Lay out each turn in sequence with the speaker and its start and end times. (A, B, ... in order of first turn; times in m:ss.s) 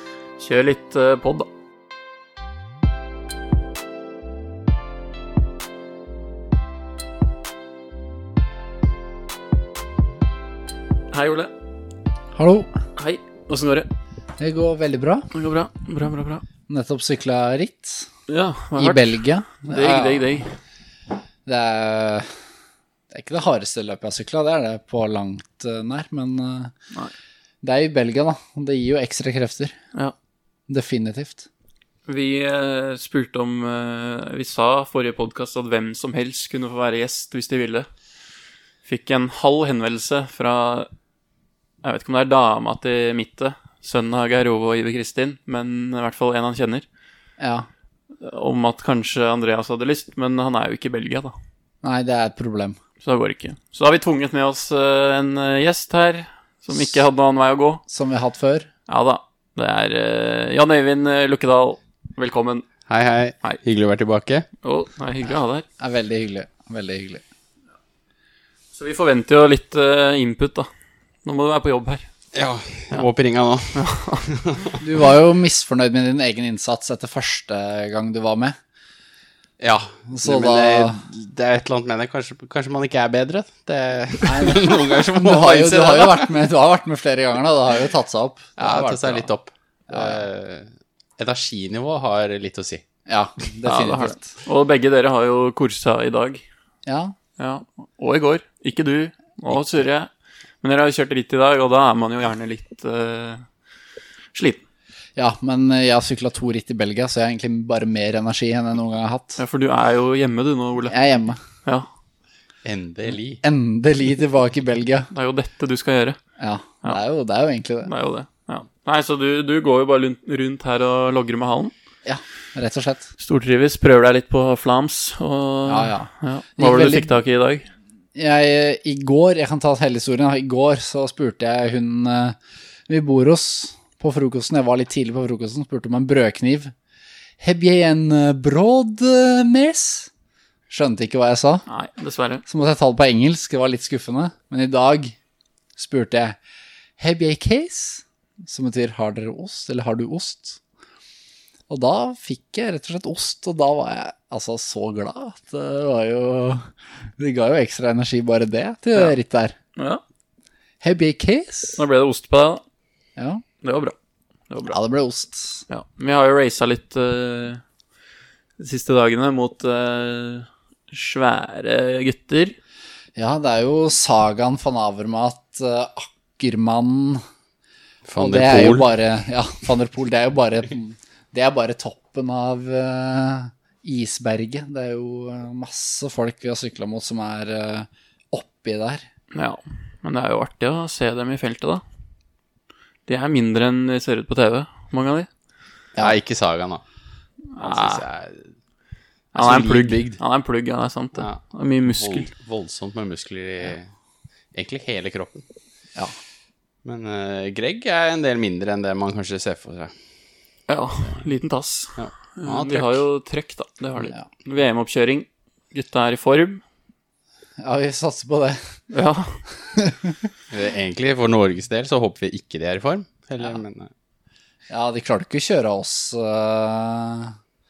0:00.4-0:01.5 A
0:11.1-0:11.5 A
0:12.3-0:12.7 B
0:13.0-0:13.9 A
0:14.4-0:15.3 B
0:15.3-0:16.4 A
0:16.7-0:18.1 B
0:18.3-0:19.2 A
0:18.8-0:20.4 B
0:19.7-0:20.5 A
0:21.4-0:22.3 B
0:23.1-0:26.7 B
0:27.6-0:29.7 B
0:30.7-0:31.5 B
0:32.1-0:37.9 A
0:38.8-0:40.9 A
0:41.8-0:46.8 A
0:47.4-0:47.7 B
0:48.2-0:51.3 A
0:51.8-0:52.8 B
0:53.0-0:57.8 A
0:57.9-0:58.7 B
0:58.9-1:02.7 A
1:02.9-1:04.5 C
1:04.6-1:05.6 A
1:05.8-1:07.2 B
1:08.7-1:10.7 A
1:11.2-1:12.1 A
1:12.3-1:14.8 C
1:13.7-1:14.2 A
1:14.8-1:18.6 B
1:19.6-1:26.3 C
1:20.1-1:21.0 B
1:24.2-1:29.3 B
1:28.6-1:32.8 C
1:29.9-1:30.3 B
1:33.1-1:34.4 B
1:33.6-1:36.4 A
1:36.8-1:37.1 B
1:37.4-1:40.1 A
1:40.6-1:43.4 A
1:44.3-1:44.6 A
1:45.2-1:49.4 B
1:49.4-1:51.0 A
1:50.9-1:51.4 B
1:52.6-1:53.4 C
1:53.4-1:55.1 B
1:55.1-1:56.2 A
1:56.4-1:57.9 B
1:57.8-2:01.7 A
2:02.0-2:03.1 B
2:03.2-2:07.6 A
2:05.7-2:07.2 B
2:08.1-2:16.7 B
2:17.4-2:20.1 B
2:20.7-2:21.6 B
2:21.7-2:22.4 A
2:22.4-2:25.2 B
2:25.8-2:26.4 B
2:27.0-2:30.6 B
2:31.7-2:39.6 B
2:39.8-2:40.0 A
2:40.8-2:41.8 B
2:41.8-2:42.6 A
2:43.2-2:43.4 B
2:43.6-2:43.9 A
2:44.5-2:44.8 A
2:44.7-2:45.6 B
2:45.7-2:47.6 A
2:48.6-2:52.5 A
2:53.2-2:57.2 B
2:58.1-2:58.9 C
2:58.2-3:09.0 B
3:09.3-3:11.8 A
3:13.1-3:15.3 A
3:16.0-3:16.8 C
3:17.5-3:18.0 A
3:17.6-3:18.5 C
3:19.3-3:20.2 B
3:19.3-3:22.3 A
3:21.2-3:23.9 C
3:24.5-3:25.4 C
3:26.8-3:29.9 C
3:30.7-3:36.6 A
3:32.0-3:33.0 C
3:37.6-3:38.6 B
3:38.9-3:39.4 A
3:39.6-3:40.3 B
3:40.5-3:43.9 C
3:44.7-3:47.4 B